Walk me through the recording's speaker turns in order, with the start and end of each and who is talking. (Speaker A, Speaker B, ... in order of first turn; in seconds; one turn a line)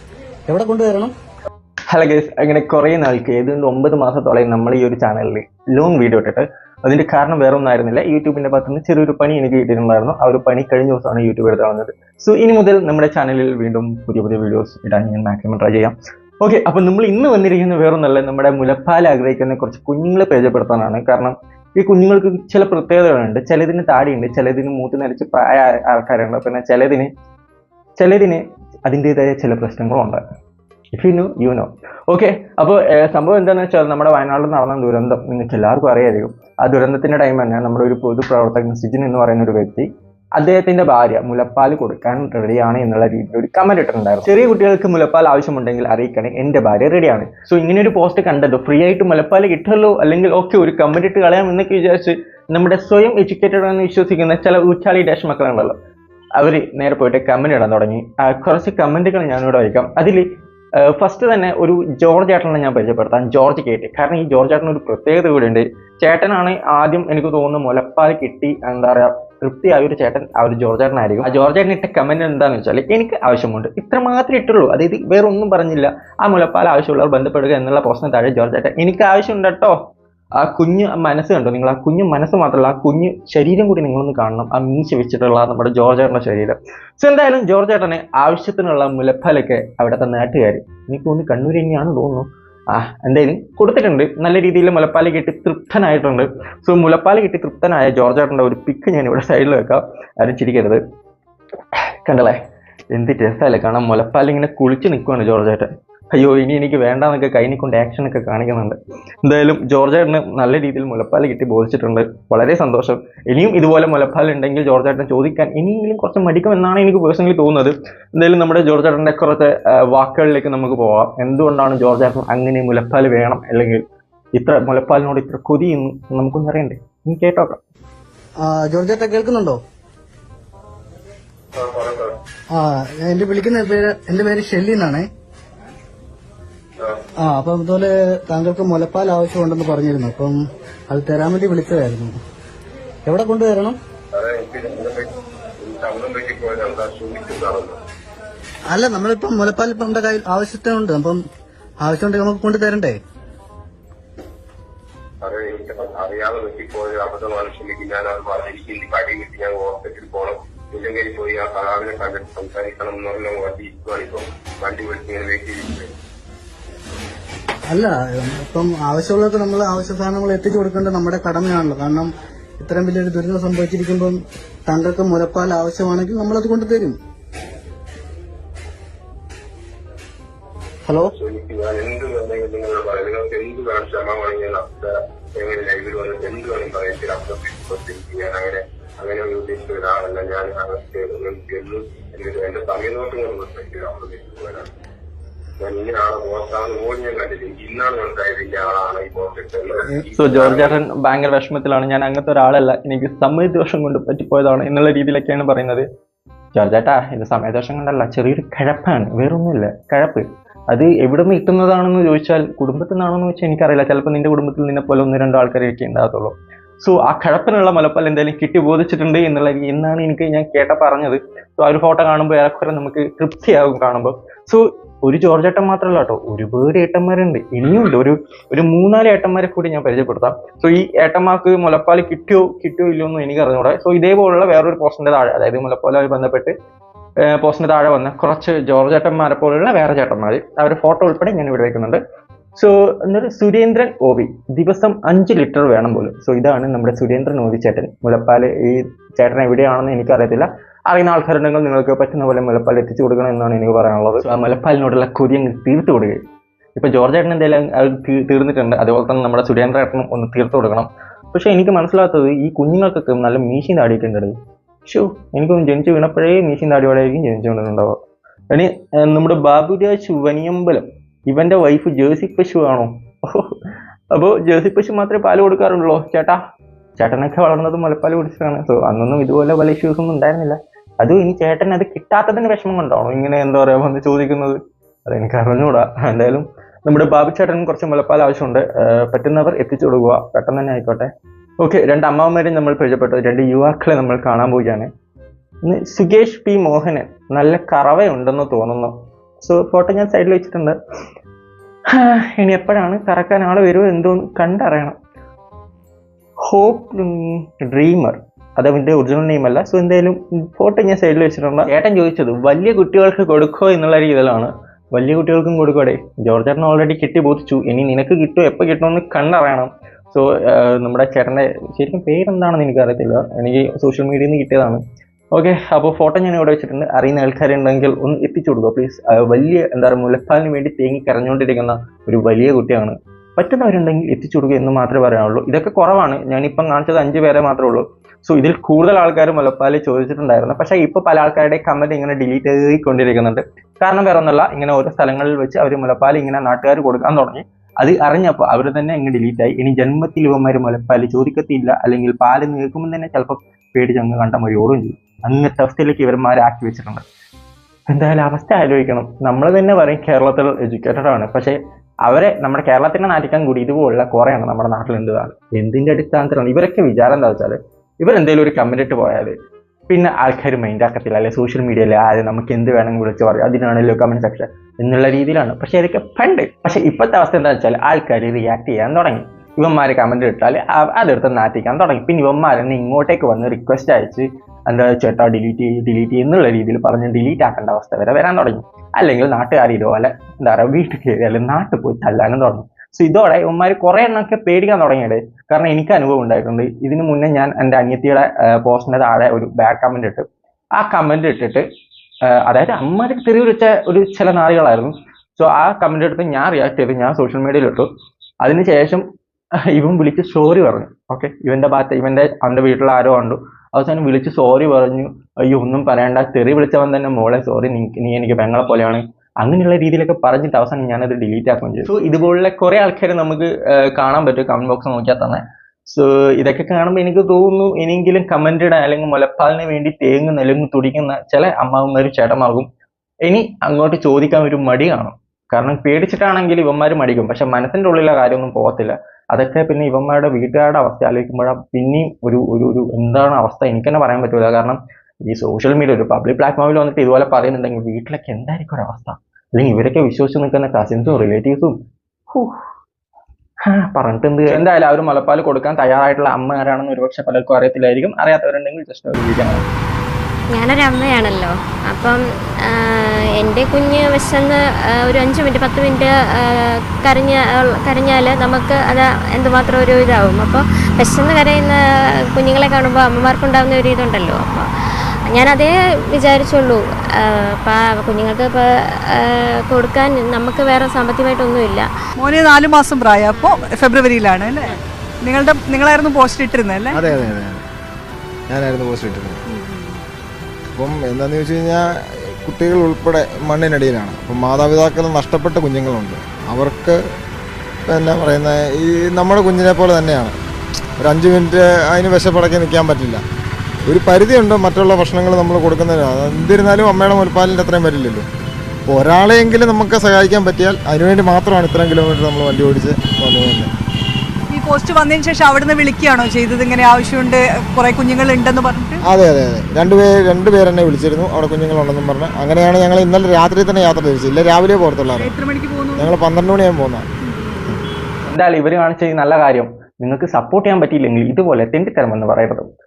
Speaker A: 0.5-1.1
Speaker B: 1.9-27.1
Speaker B: 28.0-30.2
Speaker B: 30.9-55.8
Speaker B: 56.4-60.3
Speaker B: 60.8-79.8
Speaker B: 80.4-100.8
Speaker B: 102.0-102.4
Speaker B: 102.9-123.8
Speaker B: 124.3-127.6
Speaker A: 128.4-129.6
Speaker C: 131.6-132.2
Speaker A: 132.5-135.1
Speaker A: 137.2-140.3
Speaker A: 140.9-142.2
Speaker A: 143.1-143.8
Speaker C: 144.1-147.8
Speaker A: 148.7-151.2
Speaker A: 151.8-153.0
Speaker C: 155.2-165.9
Speaker A: 167.7-177.0
Speaker C: 181.1-194.7
Speaker C: 195.6-200.8
Speaker B: 200.2-205.8
Speaker B: 206.5-236.5
Speaker B: 237.2-242.0
Speaker B: 242.6-256.2
Speaker B: 256.8-268.0
Speaker B: 268.5-273.6
Speaker B: 274.1-276.4
Speaker B: 277.0-291.1
Speaker B: 291.6-294.9
Speaker B: 295.6-300.8
Speaker B: 301.9-305.0
Speaker B: 306.4-324.8
Speaker B: 325.3-357.0
Speaker B: 357.9-369.4
Speaker B: 369.9-401.7
Speaker B: 402.3-407.9
Speaker B: 408.4-409.1
Speaker B: 409.7-432.7
Speaker B: 433.2-451.8
Speaker B: 452.3-452.6
Speaker B: 453.6-459.6
Speaker D: 460.5-471.8
Speaker D: 472.3-474.7
Speaker D: 475.3-481.9
Speaker E: 482.2-487.0
Speaker D: 483.3-483.7
Speaker D: 484.5-484.8
Speaker F: 486.9-487.6
Speaker F: 488.5-489.4
Speaker D: 489.6-490.0
Speaker F: 490.8-497.0
Speaker F: 497.9-500.4
Speaker F: 501.0-503.2
Speaker F: 503.9-508.2
Speaker F: 508.9-513.7
Speaker E: 514.5-519.0
Speaker F: 519.0-525.3
Speaker E: 525.1-526.1
Speaker F: 526.0-527.0
Speaker E: 527.3-527.6
Speaker B: 528.2-532.7